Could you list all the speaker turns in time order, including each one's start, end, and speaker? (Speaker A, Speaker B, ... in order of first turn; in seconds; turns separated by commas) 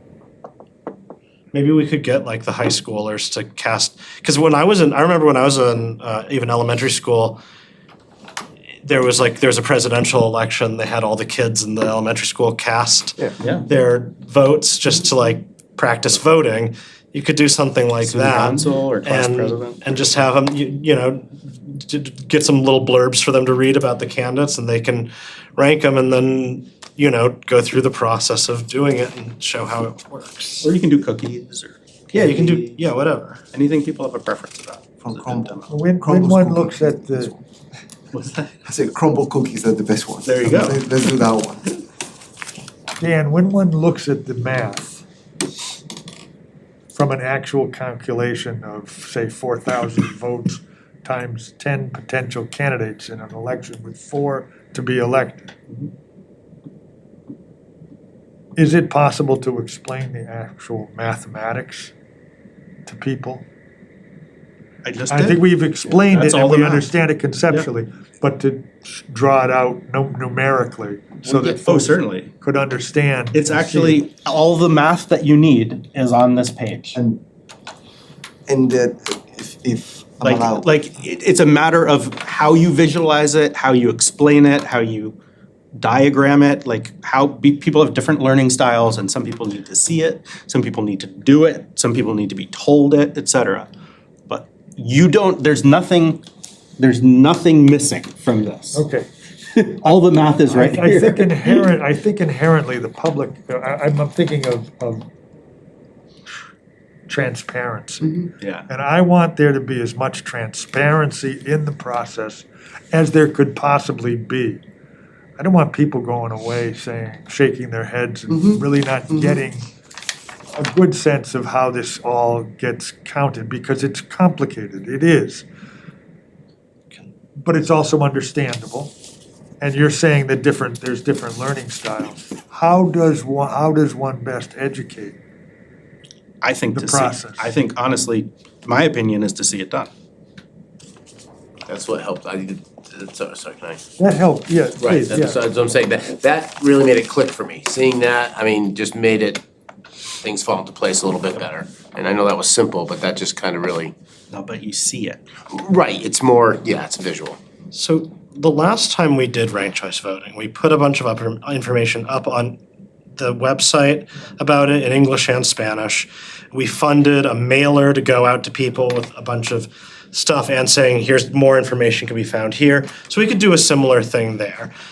Speaker A: 1.5-7.4, Speaker A: 8.8-30.7, Speaker B: 13.4-13.7, Speaker B: 18.0-19.8, Speaker B: 30.6-32.7, Speaker A: 32.1-33.4, Speaker B: 33.5-35.7, Speaker C: 35.0-37.4, Speaker D: 35.7-37.3, Speaker B: 38.1-38.5, Speaker C: 38.6-41.7, Speaker B: 40.3-40.9, Speaker D: 43.0-45.0, Speaker D: 46.9-55.5, Speaker D: 58.6-61.9, Speaker D: 62.9-63.5, Speaker B: 64.8-66.9, Speaker D: 65.1-74.0, Speaker B: 71.2-72.3, Speaker B: 73.3-77.0, Speaker C: 77.0-77.2, Speaker C: 78.5-80.7, Speaker B: 80.2-85.2, Speaker B: 85.8-93.7, Speaker B: 94.3-96.2, Speaker B: 96.8-98.8, Speaker D: 98.7-99.1, Speaker B: 99.5-101.6, Speaker D: 100.5-105.1, Speaker D: 107.1-114.6, Speaker B: 108.4-108.7, Speaker D: 115.4-119.7, Speaker D: 120.5-125.5, Speaker D: 127.4-128.9, Speaker D: 129.6-135.2, Speaker B: 136.4-139.9, Speaker D: 136.7-137.5, Speaker E: 141.7-143.8, Speaker D: 144.0-145.4, Speaker E: 144.8-149.4, Speaker E: 150.2-153.9, Speaker B: 154.3-155.2, Speaker E: 155.5-157.4, Speaker A: 157.7-162.6, Speaker A: 163.2-174.7